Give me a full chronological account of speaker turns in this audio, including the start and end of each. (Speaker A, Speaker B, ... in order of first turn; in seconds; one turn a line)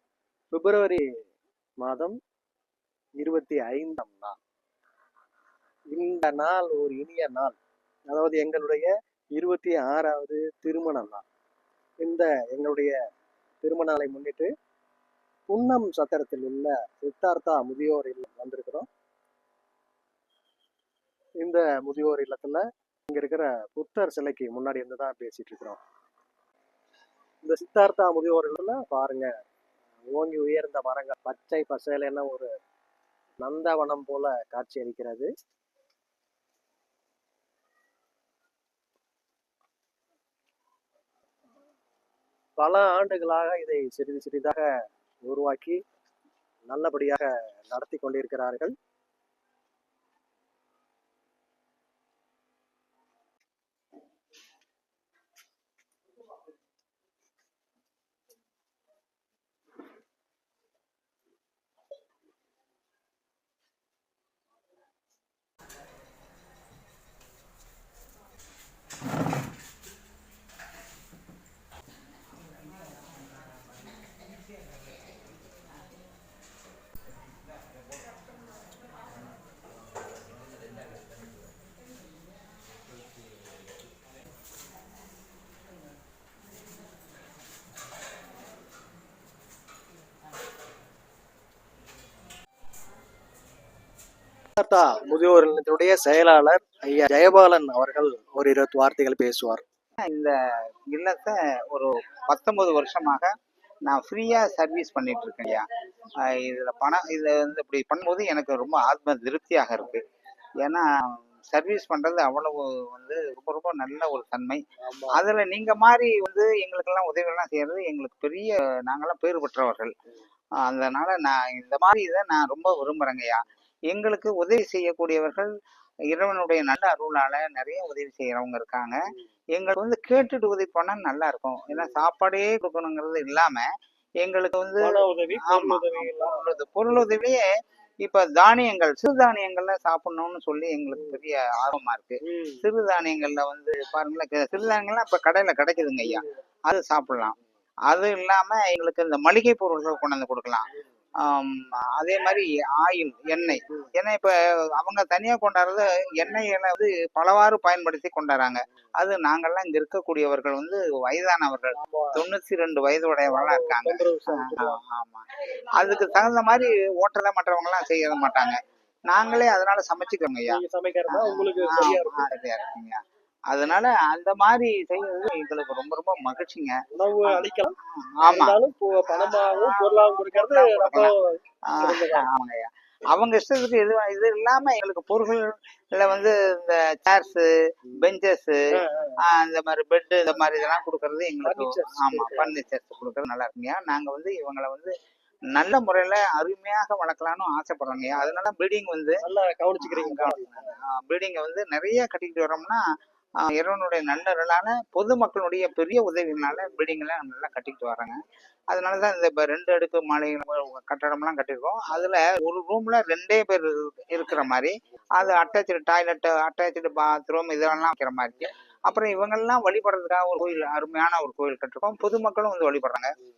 Speaker A: 0.5-1.1
Speaker A: 1.8-2.1
Speaker A: 3.2-4.4
Speaker A: 5.9-7.5
Speaker A: 8.1-11.2
Speaker A: 12.0-13.0
Speaker A: 13.6-14.5
Speaker A: 15.5-18.9
Speaker A: 21.4-25.8
Speaker A: 27.4-29.3
Speaker A: 30.1-32.5
Speaker A: 33.4-35.3
Speaker A: 42.6-44.6
Speaker A: 45.2-45.8
Speaker A: 46.7-48.7
Speaker A: 94.6-99.6
Speaker B: 100.1-100.3
Speaker B: 100.9-103.3
Speaker B: 103.8-110.0
Speaker B: 110.6-119.9
Speaker A: 114.8-115.2
Speaker B: 120.6-125.5
Speaker B: 126.1-129.0
Speaker B: 129.5-133.7
Speaker B: 134.2-137.5
Speaker A: 134.8-136.6
Speaker B: 138.0-147.3
Speaker A: 142.2-142.7
Speaker B: 147.9-150.7
Speaker B: 151.2-173.0
Speaker A: 161.8-162.2
Speaker A: 163.2-164.8
Speaker A: 170.5-172.3
Speaker B: 173.5-181.1
Speaker A: 176.9-177.8
Speaker A: 178.3-182.3
Speaker B: 181.7-188.6
Speaker A: 188.7-189.2
Speaker B: 189.2-194.9
Speaker A: 191.4-192.6
Speaker B: 195.5-199.2
Speaker A: 199.2-200.8
Speaker B: 199.8-202.8
Speaker B: 203.4-208.2
Speaker B: 208.7-223.1